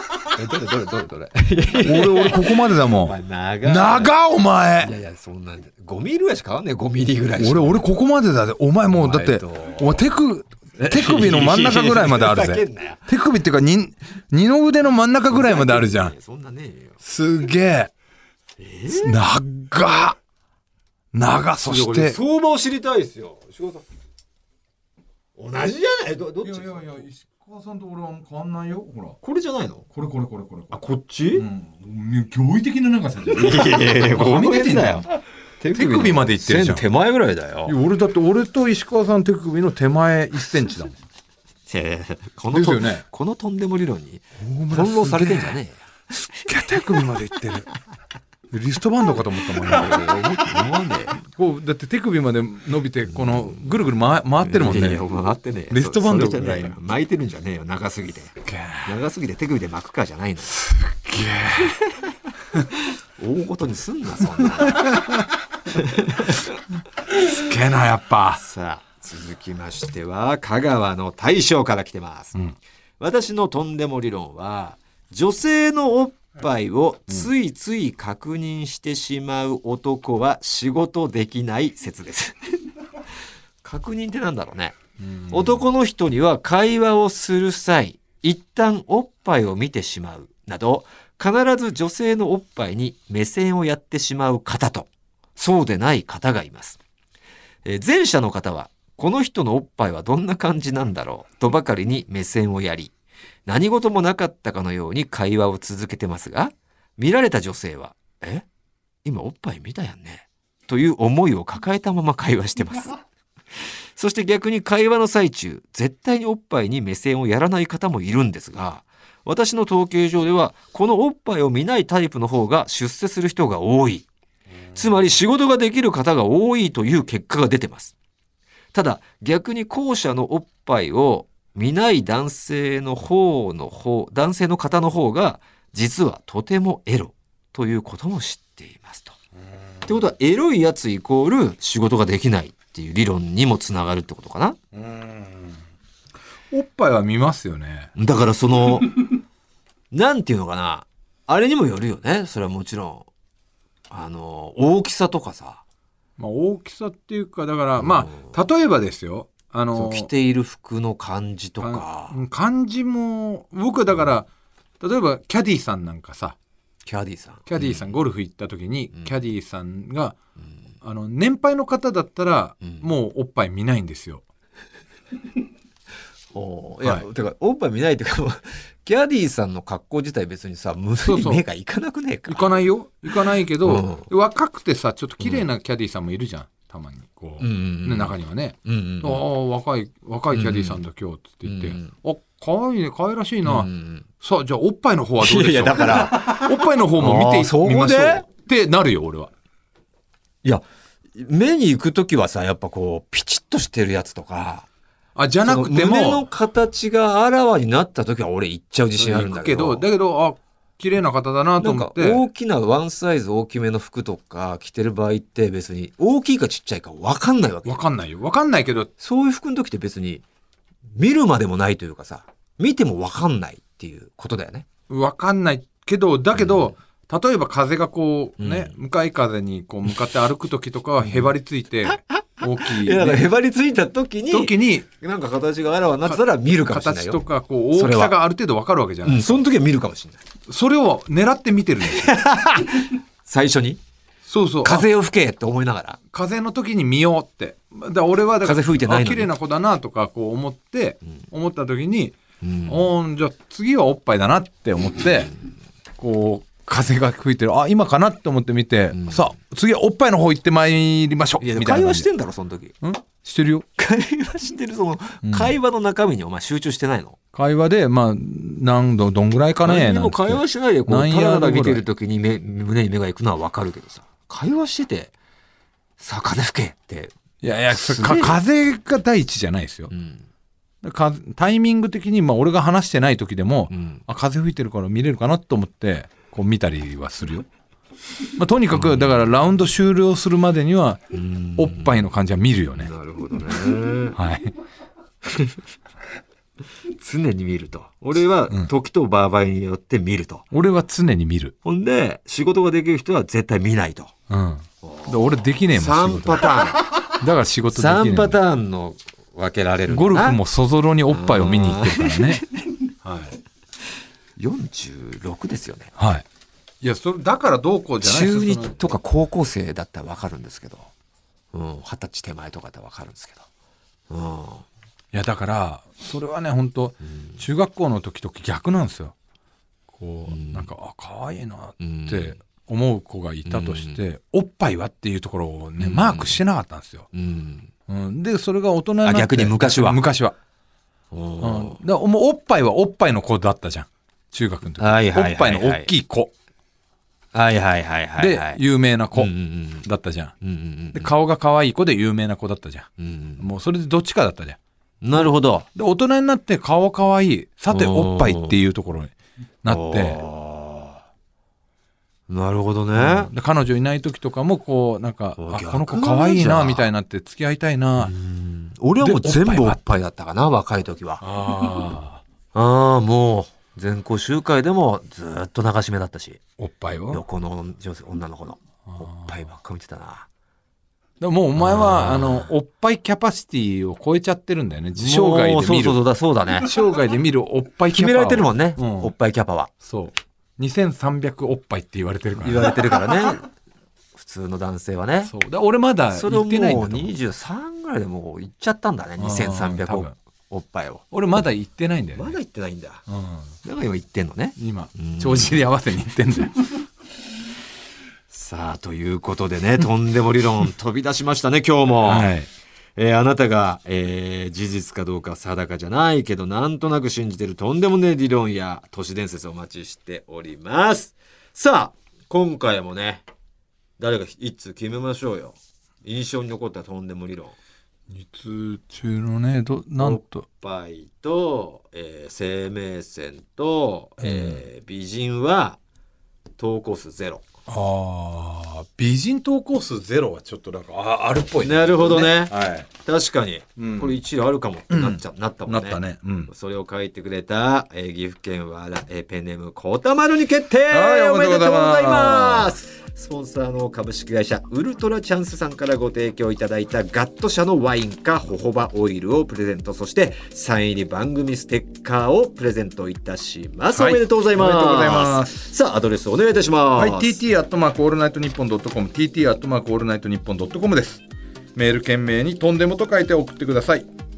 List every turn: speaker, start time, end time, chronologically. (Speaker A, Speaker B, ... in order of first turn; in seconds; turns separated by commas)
Speaker A: 0.3-4.1, Speaker B: 1.8-4.9, Speaker A: 4.8-7.9, Speaker B: 7.4-16.1, Speaker A: 8.9-10.1, Speaker A: 10.8-13.1, Speaker A: 15.3-17.0, Speaker B: 17.0-17.9, Speaker A: 18.6-19.2, Speaker B: 18.9-20.2, Speaker B: 21.1-22.2, Speaker A: 21.6-23.8, Speaker A: 25.4-27.0, Speaker B: 26.4-29.2, Speaker A: 29.2-29.9, Speaker B: 29.9-30.8, Speaker A: 30.7-31.5, Speaker B: 31.4-35.2, Speaker A: 33.3-35.1, Speaker A: 35.6-37.8, Speaker B: 35.7-36.8, Speaker B: 37.7-41.0, Speaker A: 41.7-45.8, Speaker B: 42.5-43.0, Speaker B: 44.4-45.6, Speaker B: 46.4-47.7, Speaker B: 48.5-50.5, Speaker A: 49.9-51.2, Speaker B: 51.2-55.1, Speaker A: 53.1-53.8, Speaker A: 54.4-60.5, Speaker B: 55.7-56.8, Speaker B: 58.5-58.9, Speaker B: 60.5-61.8, Speaker A: 61.6-62.1, Speaker A: 63.2-65.0, Speaker B: 64.4-65.3, Speaker A: 65.7-66.5, Speaker B: 67.1-68.4, Speaker A: 68.4-72.4, Speaker A: 73.0-82.6, Speaker A: 83.6-84.8, Speaker B: 85.0-85.6, Speaker A: 85.3-96.8, Speaker A: 97.7-102.9, Speaker A: 103.5-108.5, Speaker A: 109.0-113.0, Speaker A: 114.0-124.1, Speaker B: 124.7-125.1, Speaker A: 124.7-128.0, Speaker A: 128.7-139.2, Speaker A: 139.8-144.6, Speaker B: 144.7-145.6, Speaker B: 146.5-147.9, Speaker A: 148.0-149.2, Speaker A: 149.9-153.1, Speaker A: 153.9-155.6, Speaker B: 156.2-160.1, Speaker A: 157.8-158.3, Speaker A: 159.7-162.2, Speaker B: 161.6-164.3, Speaker B: 164.8-166.4, Speaker A: 166.8-167.9, Speaker B: 167.5-170.2, Speaker B: 170.8-174.2, Speaker A: 176.3-182.5, Speaker B: 181.1-181.4, Speaker B: 182.3-193.7, Speaker A: 183.6-184.1, Speaker A: 187.4-189.2, Speaker A: 190.3-190.8, Speaker A: 191.4-191.9, Speaker A: 193.4-194.1, Speaker B: 194.2-199.3, Speaker A: 195.2-198.2, Speaker A: 201.2-204.7, Speaker B: 205.2-206.3, Speaker A: 205.4-209.9, Speaker B: 209.0-212.2, Speaker A: 211.6-217.8, Speaker B: 217.7-218.9, Speaker A: 219.0-220.2, Speaker A: 220.9-224.7, Speaker B: 224.9-233.2, Speaker A: 226.4-226.8, Speaker A: 228.4-228.8, Speaker A: 231.0-231.3, Speaker A: 232.7-237.2, Speaker B: 234.3-234.9, Speaker B: 236.1-239.4, Speaker A: 237.8-238.1, Speaker A: 239.1-240.2, Speaker B: 240.5-242.1, Speaker A: 241.9-243.8, Speaker B: 244.3-244.9, Speaker A: 244.6-246.0, Speaker B: 246.1-255.3, Speaker A: 248.4-249.3, Speaker A: 252.4-252.9, Speaker B: 256.0-262.1, Speaker A: 258.9-259.3, Speaker A: 261.4-262.8, Speaker B: 262.8-263.7, Speaker A: 263.8-267.2, Speaker B: 265.2-265.6, Speaker B: 267.3-271.8, Speaker A: 269.6-275.1, Speaker A: 276.0-277.1, Speaker B: 277.4-279.9, Speaker A: 277.7-278.4, Speaker A: 279.9-280.3, Speaker B: 280.8-287.5, Speaker A: 283.7-284.0, Speaker B: 288.4-291.0, Speaker A: 288.7-289.0, Speaker A: 291.1-292.0, Speaker B: 291.6-292.9, Speaker A: 292.8-294.2, Speaker B: 294.2-294.5, Speaker A: 295.3-295.6, Speaker A: 296.9-300.5, Speaker B: 300.5-301.5, Speaker A: 301.6-304.1, Speaker B: 304.3-306.5, Speaker A: 304.8-306.9, Speaker B: 307.1-308.4, Speaker A: 307.7-310.4, Speaker B: 309.9-312.4, Speaker A: 311.1-312.7, Speaker B: 313.0-313.4, Speaker A: 314.4-316.0, Speaker B: 316.0-316.2, Speaker B: 316.8-318.9, Speaker A: 318.0-320.9, Speaker A: 321.5-323.4, Speaker A: 324.1-324.6, Speaker B: 325.1-329.1, Speaker A: 327.1-327.4, Speaker B: 329.9-337.1, Speaker A: 330.3-330.7, Speaker A: 331.8-332.4, Speaker A: 333.4-334.0, Speaker A: 335.8-336.4, Speaker A: 337.1-337.7, Speaker B: 337.9-340.4, Speaker A: 339.0-340.0, Speaker A: 341.1-341.8, Speaker B: 341.4-346.3, Speaker A: 344.8-345.9, Speaker A: 347.3-348.6, Speaker B: 348.2-349.3, Speaker A: 349.1-349.9, Speaker B: 349.9-350.3, Speaker A: 350.4-351.1, Speaker B: 350.9-352.9, Speaker A: 353.0-353.4, Speaker B: 353.4-354.6, Speaker A: 355.0-355.7, Speaker B: 355.8-360.2, Speaker A: 357.7-358.6, Speaker A: 359.7-361.0, Speaker A: 362.3-363.3, Speaker B: 362.9-368.1, Speaker A: 365.4-366.9, Speaker A: 368.0-371.2, Speaker B: 369.0-369.8, Speaker B: 371.2-372.2, Speaker A: 372.5-376.4, Speaker B: 376.6-377.2, Speaker A: 377.1-380.3, Speaker B: 378.9-379.3, Speaker B: 381.2-386.0, Speaker A: 381.6-382.5, Speaker A: 385.0-386.7, Speaker B: 386.6-389.1, Speaker A: 387.9-389.7, Speaker B: 389.8-392.8, Speaker A: 392.4-393.5, Speaker A: 394.1-395.3, Speaker B: 395.3-397.1, Speaker A: 396.1-401.1, Speaker B: 399.2-400.1, Speaker B: 401.1-402.4, Speaker A: 402.1-403.0, Speaker B: 403.1-403.5, Speaker A: 403.6-405.6, Speaker B: 404.6-406.8, Speaker A: 408.3-412.3, Speaker B: 412.0-412.5, Speaker A: 413.0-423.2, Speaker A: 424.0-427.6, Speaker B: 428.1-430.4, Speaker A: 430.0-435.8, Speaker B: 434.2-434.6, Speaker A: 436.6-437.4, Speaker B: 437.7-442.9, Speaker A: 441.6-467.4, Speaker B: 443.8-444.2, Speaker B: 444.9-446.5, Speaker B: 450.9-452.8, Speaker B: 463.9-465.6, Speaker B: 467.0-471.2, Speaker B: 471.8-474.1